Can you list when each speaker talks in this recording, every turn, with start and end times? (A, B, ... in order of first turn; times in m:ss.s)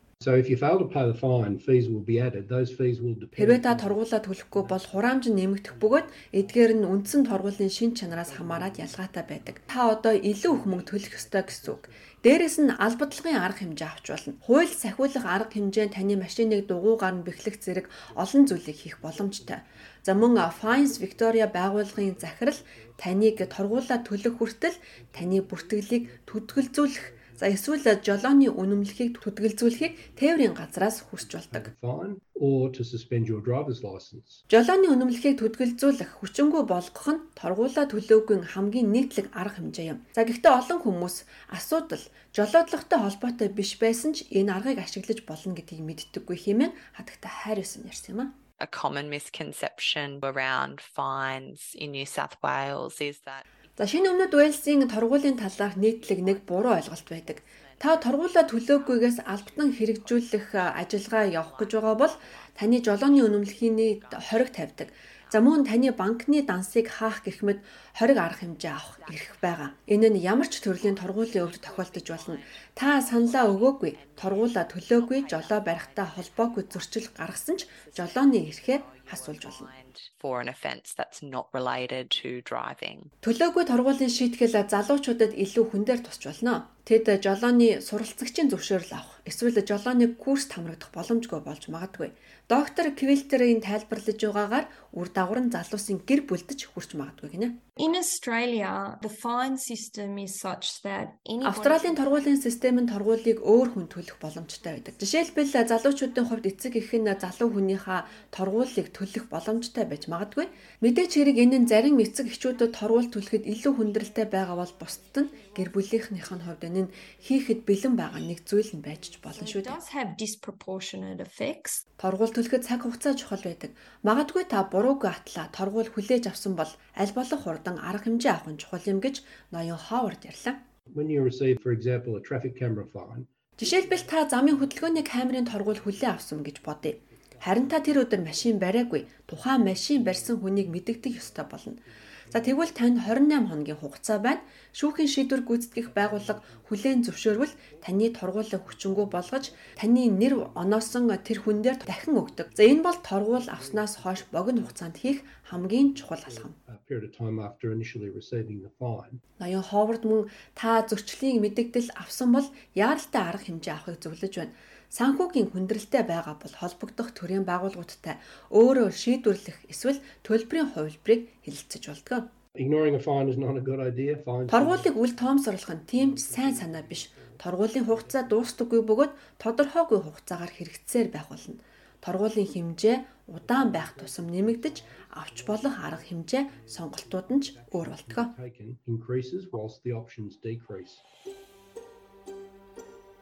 0:00.2-0:12.6 A
0:03.4-0:31.7 B
0:17.9-0:34.4 A
0:34.5-0:48.4 B
0:48.6-1:06.0 C
0:53.8-1:19.7 B
1:08.1-1:23.1 C
1:23.2-1:37.6 B
1:37.8-1:42.3 D
1:41.4-1:59.8 B
1:59.3-2:01.8 D
2:02.0-2:10.6 B
2:10.9-2:23.4 A
2:13.6-2:36.6 B
2:25.7-2:39.2 A
2:39.4-2:52.3 B
2:52.5-2:58.7 A
2:54.5-3:08.3 B
3:03.4-3:11.0 A